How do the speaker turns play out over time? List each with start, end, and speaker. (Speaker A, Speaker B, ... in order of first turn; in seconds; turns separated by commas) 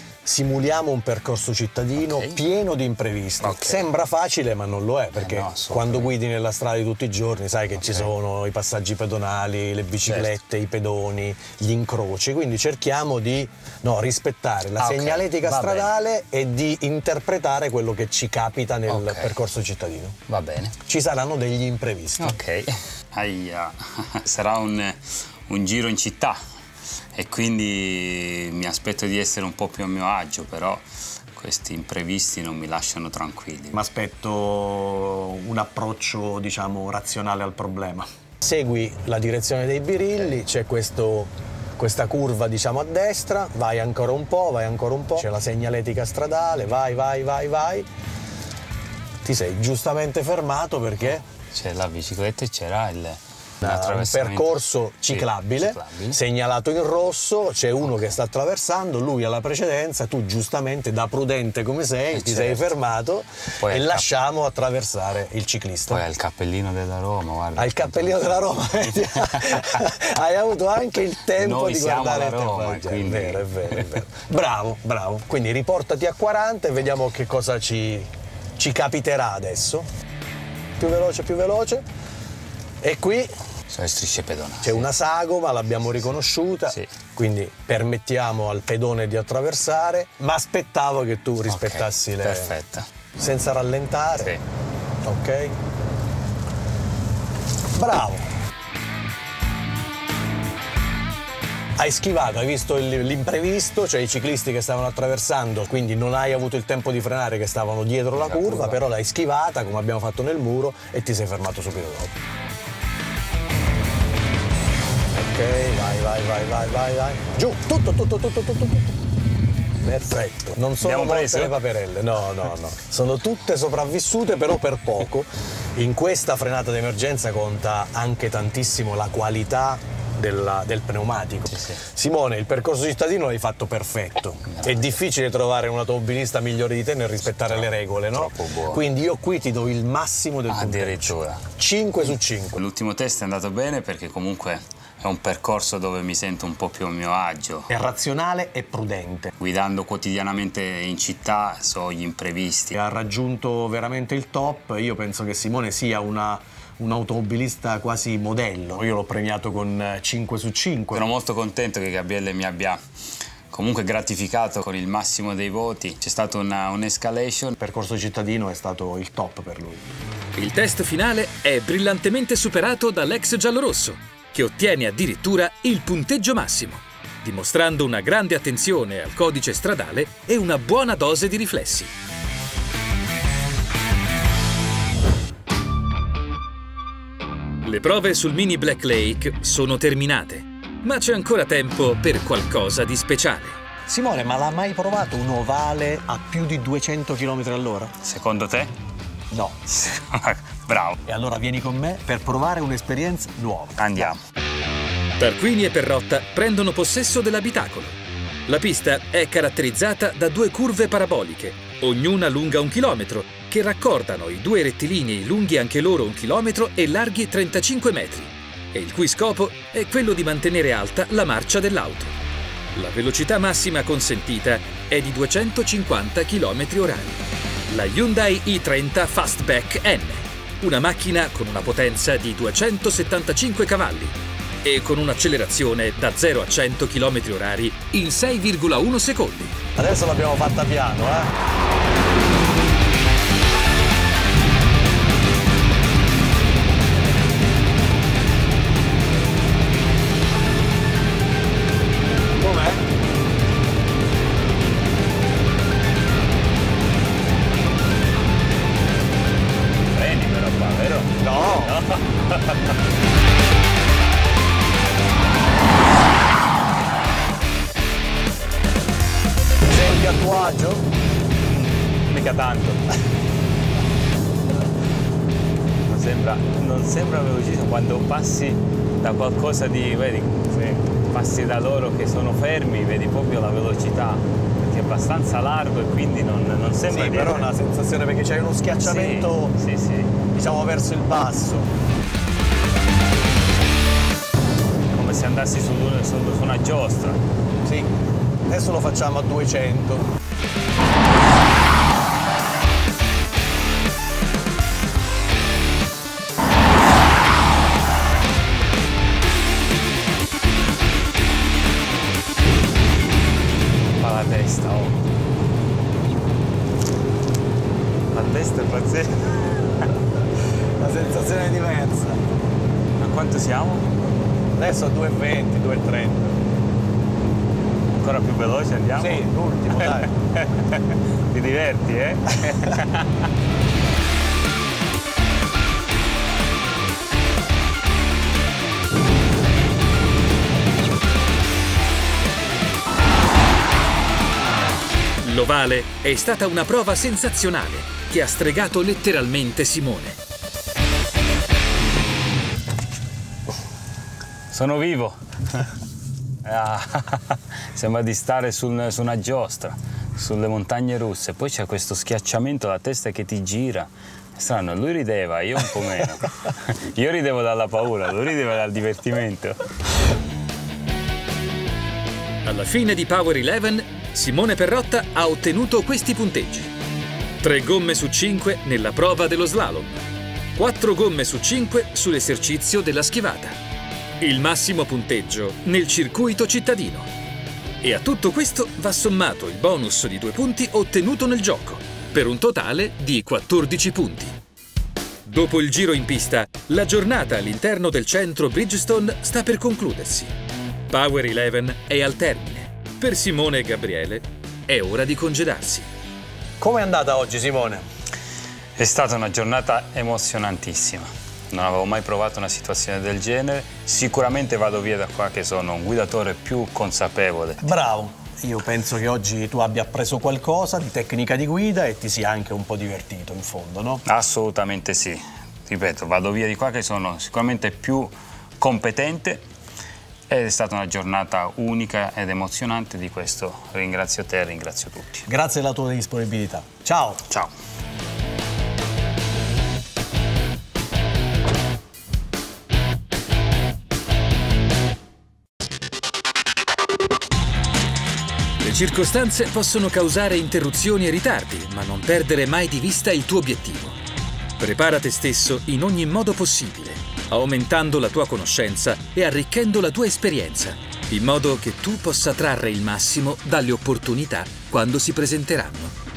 Speaker A: 0.2-20.2, Speaker B: 2.0-2.4, Speaker B: 3.4-3.9, Speaker B: 5.2-6.1, Speaker B: 10.1-10.3, Speaker B: 14.8-15.9, Speaker B: 18.9-19.4, Speaker B: 20.3-20.8, Speaker A: 20.9-22.4, Speaker B: 22.2-26.4, Speaker B: 27.1-30.8, Speaker B: 31.4-33.8, Speaker A: 33.7-47.9, Speaker A: 49.2-51.2, Speaker B: 51.5-56.2, Speaker A: 53.6-66.0, Speaker B: 62.1-62.7, Speaker B: 63.6-64.0, Speaker B: 65.9-69.7, Speaker A: 67.6-79.9, Speaker B: 71.4-74.0, Speaker A: 80.8-81.8, Speaker A: 82.8-83.3, Speaker B: 83.7-84.9, Speaker A: 84.6-92.5, Speaker B: 91.5-92.9, Speaker A: 93.2-94.3, Speaker A: 95.0-95.6, Speaker A: 97.8-98.3, Speaker A: 101.8-112.1, Speaker B: 108.2-108.8, Speaker A: 115.1-118.9, Speaker A: 119.8-142.6, Speaker B: 120.8-121.6, Speaker B: 131.5-131.8, Speaker B: 134.5-134.8, Speaker B: 138.1-138.8, Speaker B: 140.5-141.5, Speaker B: 142.6-147.7, Speaker A: 147.7-149.3, Speaker B: 149.4-152.8, Speaker A: 152.8-161.1, Speaker B: 160.9-162.8, Speaker B: 163.5-167.6, Speaker A: 167.6-169.9, Speaker C: 170.4-181.9, Speaker C: 187.6-193.6, Speaker A: 193.9-198.0, Speaker B: 198.0-198.7, Speaker A: 199.3-199.7, Speaker B: 199.7-201.0, Speaker A: 201.1-204.2, Speaker B: 203.8-204.2, Speaker C: 205.2-222.1, Speaker C: 222.8-239.6, Speaker A: 239.8-241.3, Speaker A: 252.4-252.8, Speaker B: 259.9-262.8, Speaker A: 261.2-261.8, Speaker A: 269.7-270.9, Speaker B: 271.5-272.9, Speaker B: 275.9-287.5, Speaker A: 286.9-289.6, Speaker B: 288.8-290.2, Speaker A: 290.3-291.7, Speaker B: 294.9-297.2, Speaker A: 297.6-297.9, Speaker A: 298.5-300.1, Speaker B: 314.0-315.0, Speaker B: 318.1-319.9, Speaker A: 320.8-322.2, Speaker B: 323.0-323.9, Speaker A: 324.5-326.5, Speaker B: 328.0-333.3, Speaker A: 329.0-330.1, Speaker C: 345.2-350.2, Speaker B: 354.5-355.7, Speaker B: 356.4-369.6, Speaker C: 372.4-376.7, Speaker C: 377.4-380.0, Speaker C: 380.6-383.6, Speaker C: 384.2-387.1, Speaker C: 387.8-394.4, Speaker C: 395.3-400.3, Speaker C: 400.9-405.9, Speaker A: 406.6-407.9, Speaker B: 408.8-417.7, Speaker A: 417.6-424.0, Speaker B: 424.1-429.4, Speaker B: 430.3-435.3, Speaker A: 435.3-437.3, Speaker C: 448.6-454.0, Speaker C: 454.6-465.9